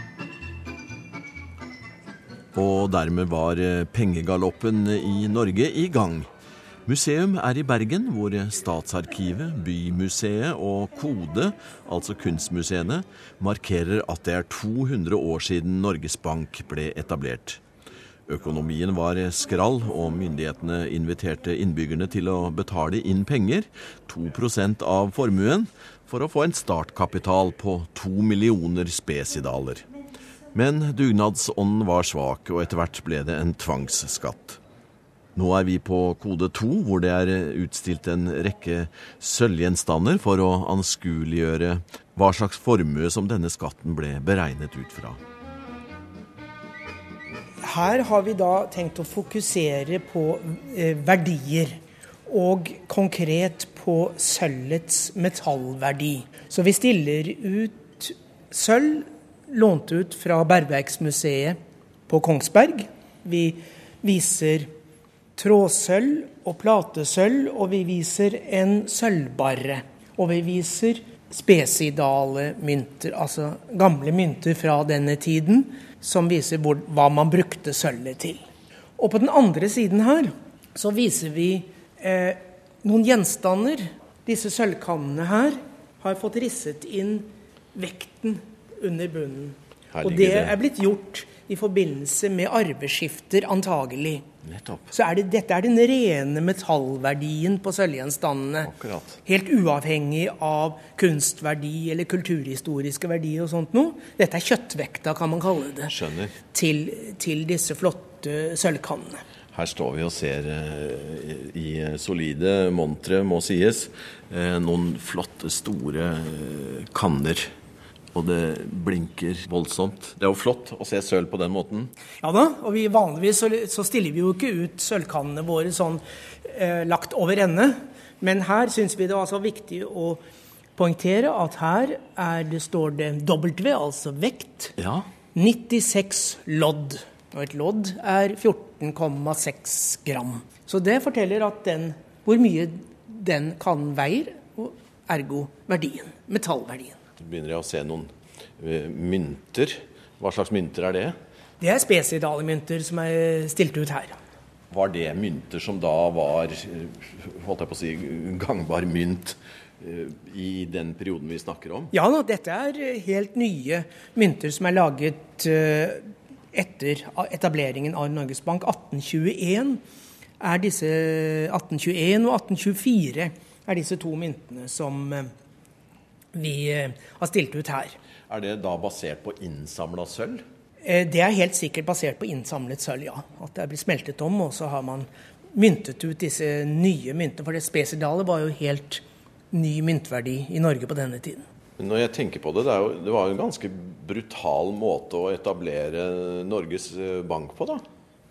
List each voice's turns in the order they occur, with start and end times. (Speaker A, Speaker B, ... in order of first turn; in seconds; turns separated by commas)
Speaker A: 2.5-6.3, Speaker A: 6.8-17.6, Speaker A: 18.3-29.9, Speaker A: 30.5-34.6, Speaker A: 35.3-45.2, Speaker B: 47.6-61.6, Speaker B: 62.1-64.7, Speaker B: 65.4-78.4, Speaker B: 79.0-94.2, Speaker A: 89.9-90.6, Speaker A: 94.4-94.9, Speaker B: 94.9-98.7, Speaker A: 98.6-99.2, Speaker B: 99.2-105.9, Speaker A: 105.9-106.3, Speaker B: 106.5-109.2, Speaker A: 109.5-117.5, Speaker A: 118.1-121.9, Speaker B: 122.2-130.2, Speaker B: 130.8-134.7, Speaker A: 134.8-135.1, Speaker B: 135.3-147.0, Speaker A: 147.2-151.2, Speaker B: 151.6-154.2, Speaker A: 154.7-161.9, Speaker B: 161.9-169.8, Speaker B: 170.4-175.3, Speaker B: 176.3-178.0, Speaker A: 178.3-180.4, Speaker B: 180.8-191.4, Speaker A: 191.8-197.8